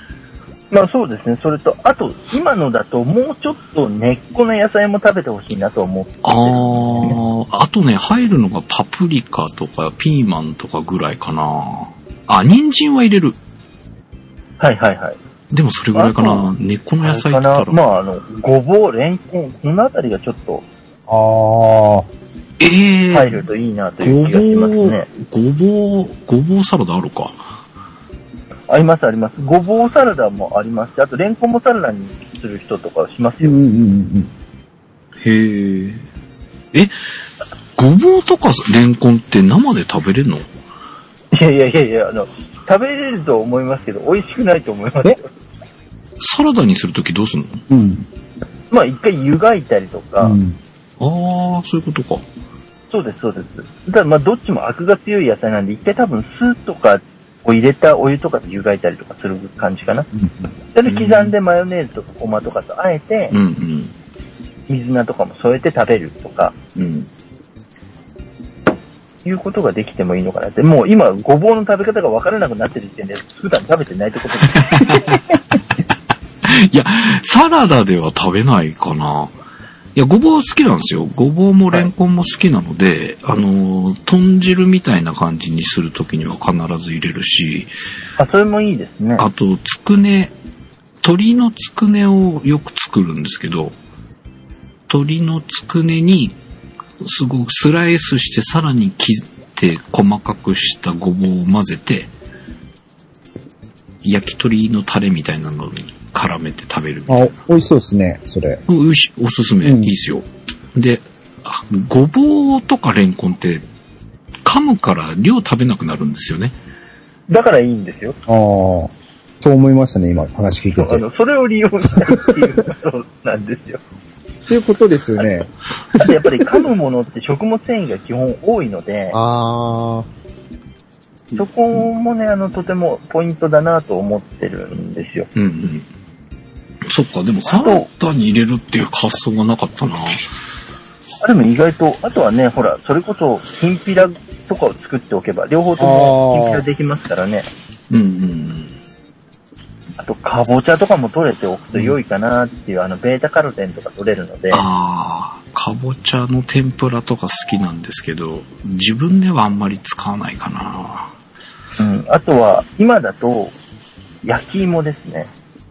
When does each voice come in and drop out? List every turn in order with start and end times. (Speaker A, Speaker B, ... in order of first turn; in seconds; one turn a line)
Speaker A: 0.7-7.2
Speaker B: 6.2-13.4
Speaker A: 14.6-15.2
Speaker B: 15.5-17.8
Speaker A: 15.9-16.5
Speaker A: 17.0-20.6
Speaker C: 21.1-22.1
Speaker B: 22.6-23.4
Speaker A: 23.1-25.1
Speaker B: 24.0-27.4
Speaker A: 28.7-33.6
Speaker C: 33.4-34.3
Speaker B: 35.2-36.0
Speaker B: 37.8-40.5
Speaker A: 41.3-45.3
Speaker B: 46.2-47.6
Speaker C: 47.7-48.1
Speaker A: 48.7-50.4
Speaker C: 50.2-50.6
Speaker B: 51.0-52.2
Speaker A: 52.9-60.1
Speaker C: 60.1-60.5
Speaker A: 60.7-63.4
Speaker B: 60.9-61.3
Speaker B: 63.3-63.9
Speaker A: 64.7-66.5
Speaker B: 66.8-67.1
Speaker A: 69.2-75.2
Speaker B: 74.5-75.3
Speaker B: 76.4-79.3
Speaker B: 80.0-87.7
Speaker A: 88.2-89.2
Speaker B: 89.2-90.3
Speaker B: 91.0-93.7
Speaker B: 94.9-96.3
Speaker B: 97.0-102.1
Speaker B: 104.0-107.3
Speaker C: 107.1-108.6
Speaker B: 108.7-113.6
Speaker C: 109.6-109.9
Speaker B: 114.4-116.5
Speaker A: 117.3-118.2
Speaker C: 118.3-121.0
Speaker A: 120.8-123.8
Speaker C: 122.1-122.4
Speaker C: 124.5-126.2
Speaker A: 126.0-129.2
Speaker C: 129.1-130.1
Speaker A: 131.4-135.3
Speaker B: 135.3-135.9
Speaker B: 136.9-140.3
Speaker A: 137.4-137.9
Speaker A: 141.2-147.5
Speaker C: 145.8-146.6
Speaker B: 147.9-148.7
Speaker A: 150.0-154.6
Speaker B: 154.5-161.1
Speaker A: 161.8-163.6
Speaker A: 164.2-165.3